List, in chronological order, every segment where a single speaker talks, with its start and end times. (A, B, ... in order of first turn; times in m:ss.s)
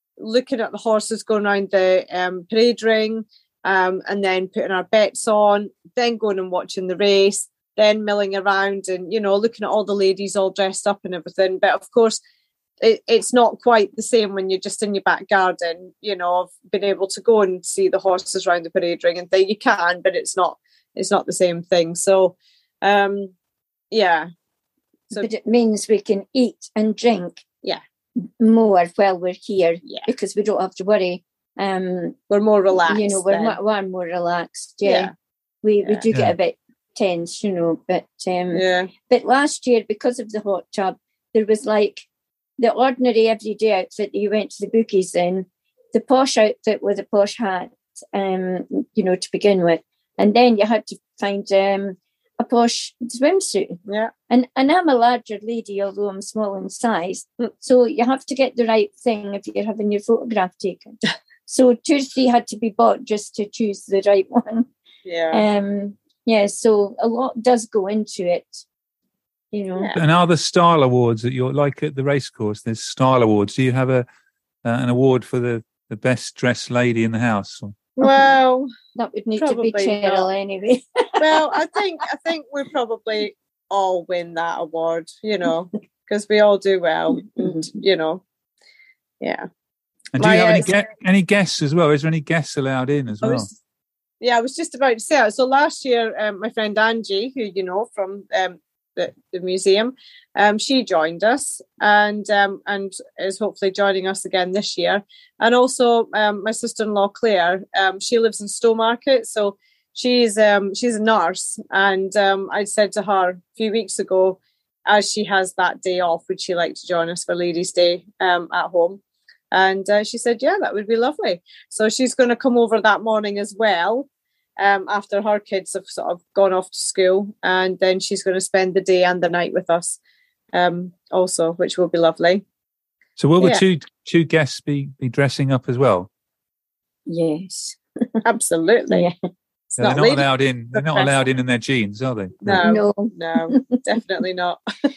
0:00.2-0:12.2 A
0:12.8-0:23.3 A
0:23.9-0:24.3 A
0:25.1-0:27.4 B
0:28.4-0:32.2 B
0:32.3-0:33.6 A
0:32.9-0:35.1 B
0:34.8-0:35.1 A
0:35.6-0:42.0 B
0:36.1-0:36.3 C
0:38.5-0:38.9 A
0:42.6-0:53.8 B
0:54.3-1:01.0 B
1:01.5-1:04.7 B
1:05.0-1:05.4 A
1:05.3-1:08.6 B
1:09.5-1:09.9 B
1:10.0-1:14.0 C
1:14.6-1:17.8 C
1:18.0-1:18.7 A
1:19.0-1:21.4 B
1:19.4-1:20.3 A
1:21.2-1:28.2 A
1:27.4-1:27.6 B
1:29.2-1:29.4 A
1:30.1-1:33.5 C
1:30.2-1:30.7 A
1:33.2-1:33.6 A
1:34.2-1:59.0 A
1:59.5-2:04.1 A
2:04.6-2:10.0 A
2:10.5-2:12.4 A
2:13.2-2:16.1 C
2:17.1-2:18.2 B
2:18.2-2:19.0 A
2:19.7-2:21.1 A
2:19.8-2:22.6 C
2:22.4-2:24.6 A
2:22.6-2:23.8 B